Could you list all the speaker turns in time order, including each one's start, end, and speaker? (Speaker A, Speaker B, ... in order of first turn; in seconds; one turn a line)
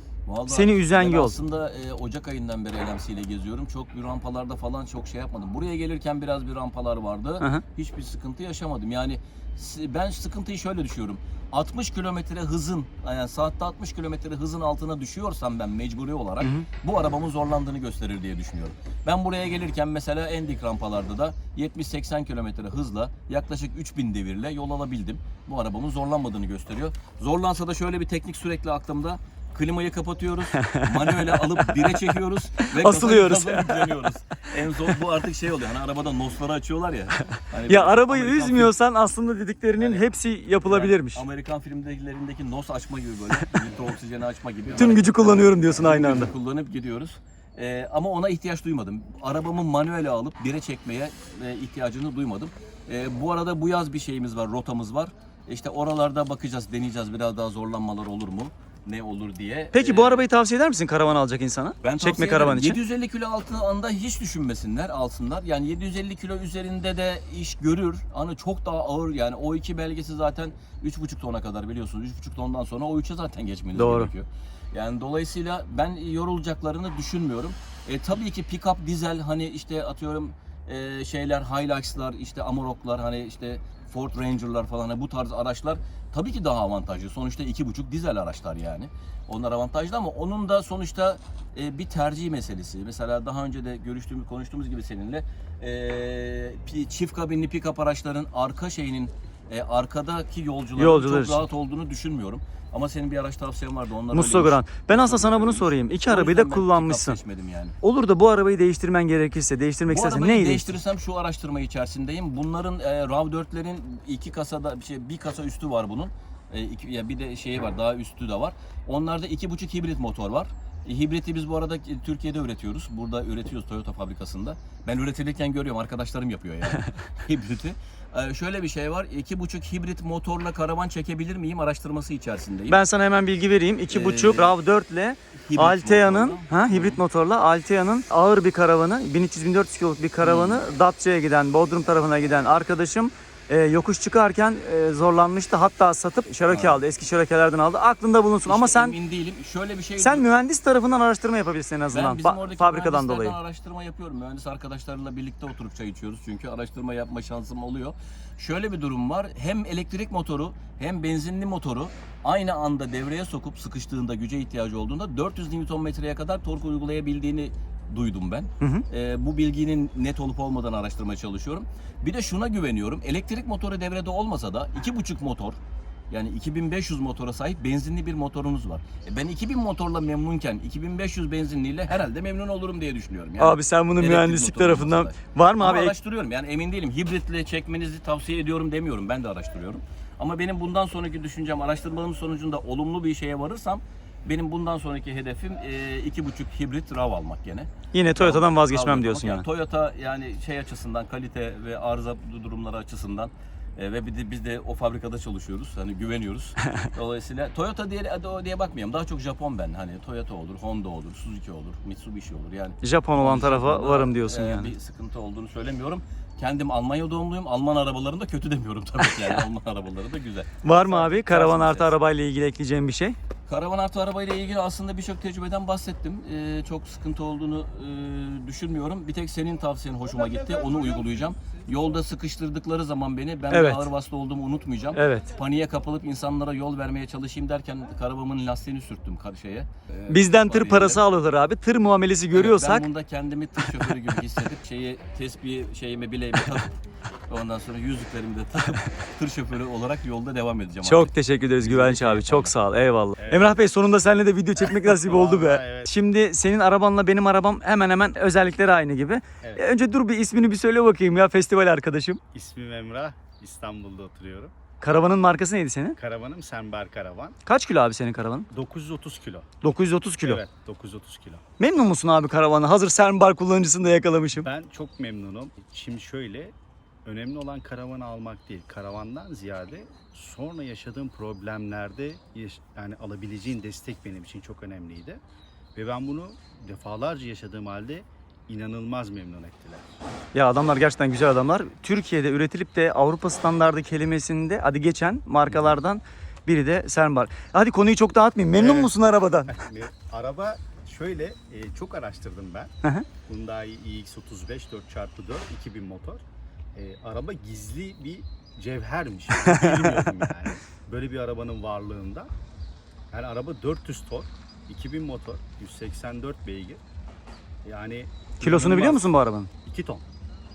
Speaker A: 0.2-38.8
Speaker B: 0.5-1.4
Speaker B: 16.4-16.7
Speaker B: 30.6-31.9
Speaker B: 32.6-34.0
Speaker B: 37.7-41.2
Speaker A: 39.7-60.2
Speaker B: 44.8-46.3
Speaker B: 59.7-62.8
Speaker A: 61.8-107.8
Speaker B: 73.7-74.1
Speaker B: 100.8-101.4
Speaker B: 104.1-107.2
Speaker B: 107.8-110.7
Speaker A: 109.9-132.8
Speaker B: 132.7-148.9
Speaker A: 133.9-134.6
Speaker A: 135.4-137.0
Speaker A: 140.2-140.7
Speaker A: 146.5-146.8
Speaker A: 148.5-150.3
Speaker B: 150.0-153.4
Speaker A: 151.9-175.6
Speaker B: 168.6-168.8
Speaker A: 176.1-221.9
Speaker B: 183.4-185.9
Speaker B: 197.9-199.4
Speaker B: 212.8-214.7
Speaker B: 220.6-223.2
Speaker A: 223.5-241.0
Speaker C: 230.2-231.1
Speaker B: 233.5-233.9
Speaker B: 234.9-235.3
Speaker B: 240.1-242.8
Speaker A: 242.3-246.7
Speaker B: 243.6-243.9
Speaker A: 247.3-252.5
Speaker B: 250.8-262.2
Speaker C: 253.2-253.6
Speaker C: 254.6-255.9
Speaker C: 262.3-264.5
Speaker B: 264.8-265.9
Speaker C: 265.9-267.4
Speaker B: 267.4-268.5
Speaker C: 268.5-269.5
Speaker B: 269.6-270.4
Speaker C: 270.2-271.4
Speaker B: 271.6-274.5
Speaker C: 274.4-276.5
Speaker C: 277.0-285.2
Speaker C: 285.7-289.9
Speaker B: 290.3-299.5
Speaker C: 295.4-295.8
Speaker C: 298.5-298.9
Speaker C: 299.4-302.7
Speaker C: 303.2-306.2
Speaker C: 306.7-312.3
Speaker B: 309.4-310.0
Speaker C: 313.1-316.8
Speaker C: 317.6-319.0
Speaker B: 318.4-319.5
Speaker C: 319.6-320.0